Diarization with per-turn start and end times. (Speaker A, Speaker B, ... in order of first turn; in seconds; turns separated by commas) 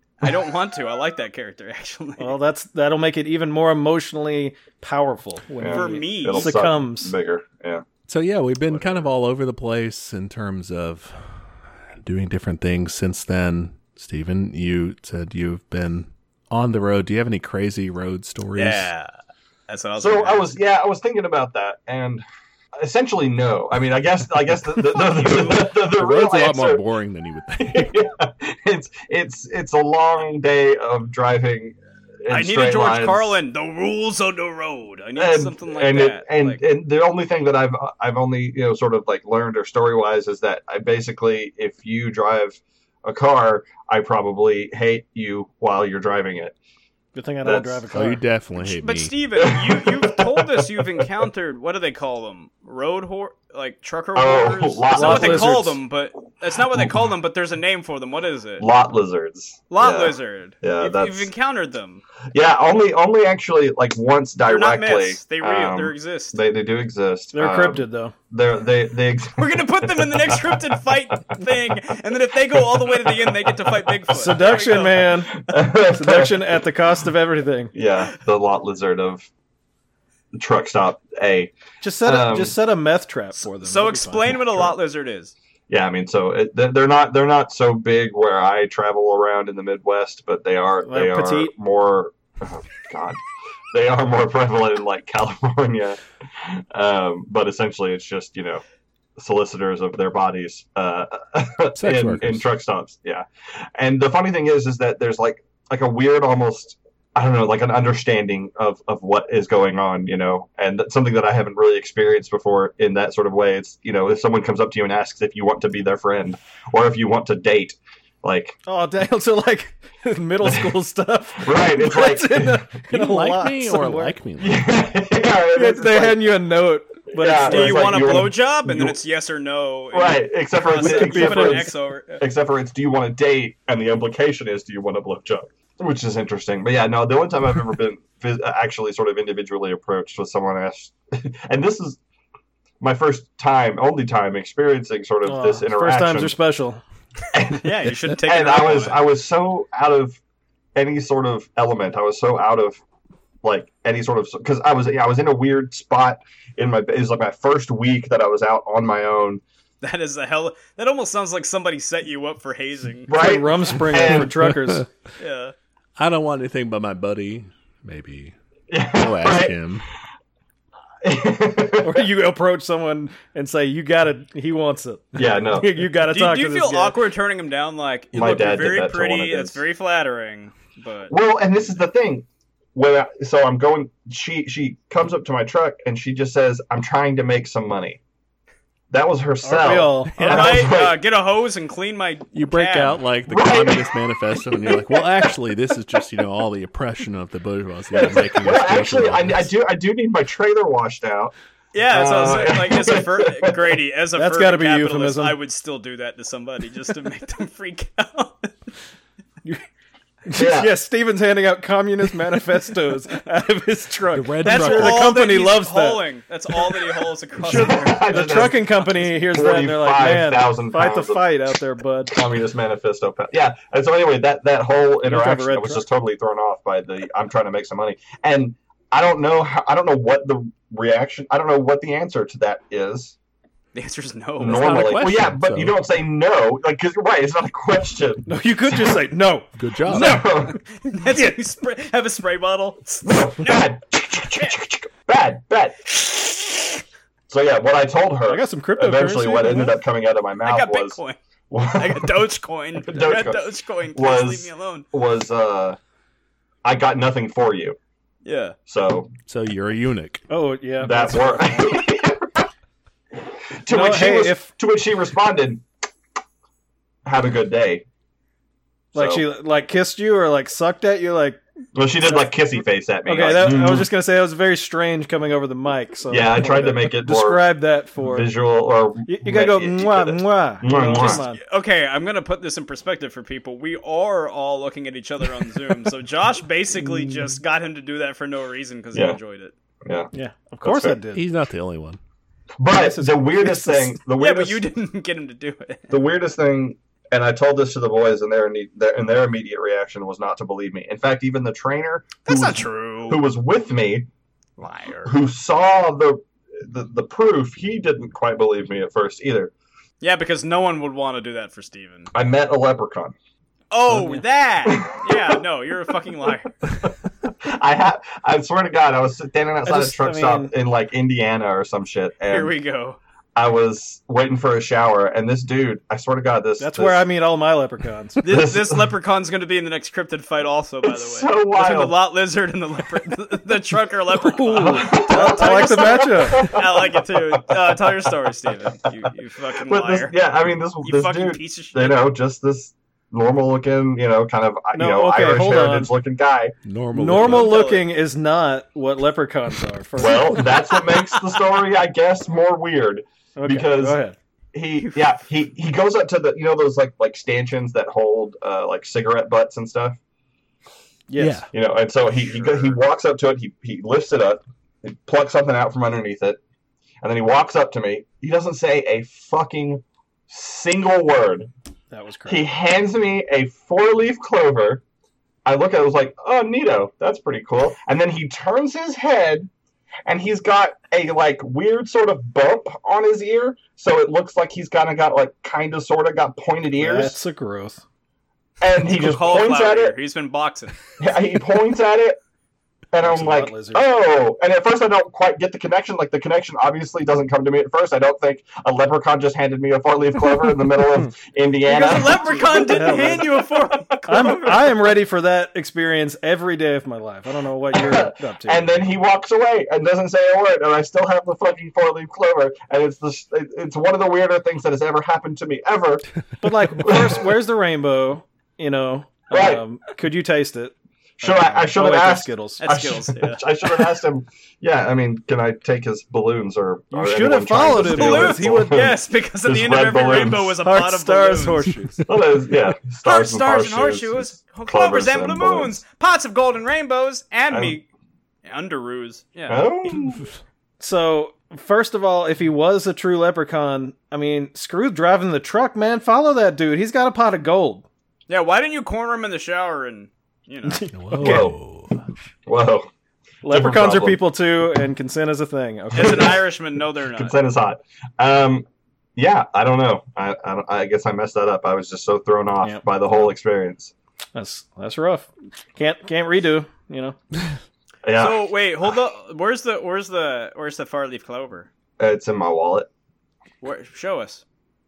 Speaker A: 0.2-2.4, Speaker B: 2.2-7.1, Speaker C: 5.6-7.8, Speaker A: 5.7-6.6, Speaker D: 8.1-11.3, Speaker C: 8.7-9.1, Speaker D: 12.0-18.9, Speaker A: 18.6-19.1, Speaker A: 19.7-20.5, Speaker C: 20.0-26.8, Speaker D: 25.4-27.9, Speaker C: 27.6-33.4, Speaker A: 32.3-36.6, Speaker C: 35.1-46.5, Speaker B: 47.1-48.2, Speaker C: 47.4-47.8, Speaker D: 47.9-49.1, Speaker A: 48.6-58.6, Speaker C: 49.3-51.2, Speaker C: 54.1-55.6, Speaker B: 54.9-55.8, Speaker C: 58.6-61.3, Speaker A: 59.7-62.0, Speaker C: 62.3-70.8, Speaker A: 64.5-66.4, Speaker B: 67.3-68.1, Speaker A: 69.3-75.2, Speaker C: 72.7-74.4, Speaker B: 74.1-77.7, Speaker C: 75.3-76.6, Speaker C: 77.7-79.3, Speaker C: 80.3-81.5, Speaker B: 81.8-84.7, Speaker C: 82.0-82.5, Speaker A: 83.6-85.3, Speaker C: 85.7-93.2, Speaker B: 90.9-91.5, Speaker C: 93.7-98.6, Speaker C: 99.2-118.5, Speaker D: 101.8-102.4, Speaker B: 118.7-124.1, Speaker C: 120.4-120.7, Speaker C: 121.4-122.7, Speaker D: 122.9-124.6, Speaker C: 124.4-126.2, Speaker B: 125.5-128.0, Speaker C: 127.1-128.9, Speaker A: 127.4-132.2, Speaker C: 129.9-142.0, Speaker B: 130.7-131.7, Speaker C: 142.8-146.3, Speaker B: 145.2-146.8, Speaker C: 147.3-150.2, Speaker A: 147.5-149.0, Speaker C: 150.8-152.8, Speaker C: 153.4-159.4, Speaker A: 159.8-163.1, Speaker C: 163.1-164.3, Speaker B: 163.1-164.9, Speaker A: 165.2-165.5, Speaker D: 166.0-168.3, Speaker C: 168.7-169.6, Speaker D: 168.9-169.8, Speaker C: 171.0-172.1, Speaker B: 171.8-177.0, Speaker C: 175.1-175.7, Speaker A: 176.1-181.1, Speaker C: 178.1-179.6, Speaker C: 181.1-188.0, Speaker C: 188.9-191.0, Speaker B: 189.4-190.1, Speaker D: 190.1-190.7, Speaker A: 190.2-193.0, Speaker D: 192.3-199.5, Speaker C: 193.2-193.9, Speaker C: 194.5-195.3, Speaker C: 197.9-201.3, Speaker A: 201.7-208.5, Speaker C: 201.9-203.7, Speaker B: 204.1-205.4, Speaker B: 210.2-216.0, Speaker C: 210.3-210.7, Speaker D: 214.1-215.0, Speaker A: 214.4-218.1, Speaker B: 217.4-222.1, Speaker C: 217.4-221.3, Speaker C: 222.1-233.2, Speaker B: 225.0-225.8, Speaker A: 233.7-235.0, Speaker C: 234.4-239.0, Speaker D: 234.4-235.7, Speaker B: 238.3-241.4, Speaker D: 239.6-240.2, Speaker C: 239.9-240.6, Speaker A: 240.0-243.6, Speaker C: 243.0-246.2, Speaker C: 247.3-251.0, Speaker B: 248.3-249.8, Speaker A: 250.4-251.2, Speaker C: 251.5-252.1, Speaker A: 251.7-254.9, Speaker C: 252.8-255.8, Speaker C: 256.6-257.8, Speaker A: 258.2-258.6, Speaker C: 258.7-259.1, Speaker D: 259.3-260.2, Speaker B: 260.3-261.5, Speaker C: 260.8-262.5, Speaker C: 263.6-265.6, Speaker B: 263.7-264.5, Speaker C: 267.0-267.8, Speaker C: 268.9-269.2, Speaker B: 268.9-271.4, Speaker C: 271.7-273.9, Speaker B: 272.1-278.3, Speaker C: 276.1-277.5, Speaker C: 278.0-281.2, Speaker B: 279.1-281.4, Speaker A: 280.7-289.5, Speaker C: 289.8-290.1, Speaker B: 290.1-291.2, Speaker C: 290.6-291.0, Speaker D: 291.1-292.0, Speaker C: 292.6-294.7, Speaker B: 292.7-294.0, Speaker A: 294.2-295.9, Speaker C: 295.9-304.1, Speaker A: 302.2-303.2, Speaker A: 304.6-305.1, Speaker C: 305.0-309.5, Speaker A: 310.0-312.1, Speaker C: 312.1-313.1, Speaker A: 313.7-316.6, Speaker B: 313.9-314.2, Speaker C: 314.6-315.4, Speaker C: 316.7-322.6, Speaker B: 319.6-320.5, Speaker A: 322.3-323.0, Speaker C: 323.4-327.0, Speaker B: 326.6-328.2, Speaker A: 328.2-340.1, Speaker C: 328.2-328.9, Speaker C: 330.8-331.9, Speaker B: 334.2-336.5, Speaker C: 334.7-338.1, Speaker C: 339.6-346.5, Speaker A: 340.8-342.1, Speaker B: 344.7-345.9, Speaker D: 346.6-347.5, Speaker B: 346.9-350.5, Speaker A: 347.1-347.9, Speaker C: 350.0-354.0, Speaker B: 353.4-354.1, Speaker C: 354.5-360.0, Speaker B: 361.1-361.5, Speaker D: 361.2-361.5, Speaker C: 361.5-366.4, Speaker A: 362.1-362.8, Speaker C: 367.0-371.5, Speaker B: 371.9-372.5, Speaker C: 372.2-374.8, Speaker C: 375.4-379.5, Speaker C: 380.1-387.2, Speaker B: 386.8-387.8, Speaker C: 388.6-390.0, Speaker A: 388.9-390.8, Speaker C: 391.0-392.2, Speaker C: 392.9-404.4, Speaker B: 393.0-393.8, Speaker A: 401.6-404.8, Speaker B: 402.3-403.2, Speaker B: 404.1-408.8, Speaker C: 407.7-417.3, Speaker B: 416.4-422.6, Speaker C: 419.3-419.6, Speaker C: 421.2-430.6, Speaker A: 422.6-423.4, Speaker B: 426.9-428.8, Speaker A: 427.8-431.6, Speaker B: 430.6-432.1, Speaker C: 432.0-435.8, Speaker A: 433.0-437.8, Speaker C: 437.5-437.8, Speaker A: 438.4-439.6, Speaker C: 439.5-440.3, Speaker B: 440.8-447.8, Speaker A: 448.3-450.9, Speaker B: 450.7-451.5, Speaker D: 450.9-452.0, Speaker C: 451.2-451.6, Speaker C: 452.5-452.9, Speaker B: 453.4-456.4, Speaker C: 453.4-454.2, Speaker A: 455.9-457.4, Speaker C: 455.9-456.4, Speaker C: 457.0-463.9, Speaker B: 464.3-467.2, Speaker C: 468.0-468.5, Speaker A: 468.1-471.7, Speaker C: 472.0-472.9, Speaker A: 473.6-474.4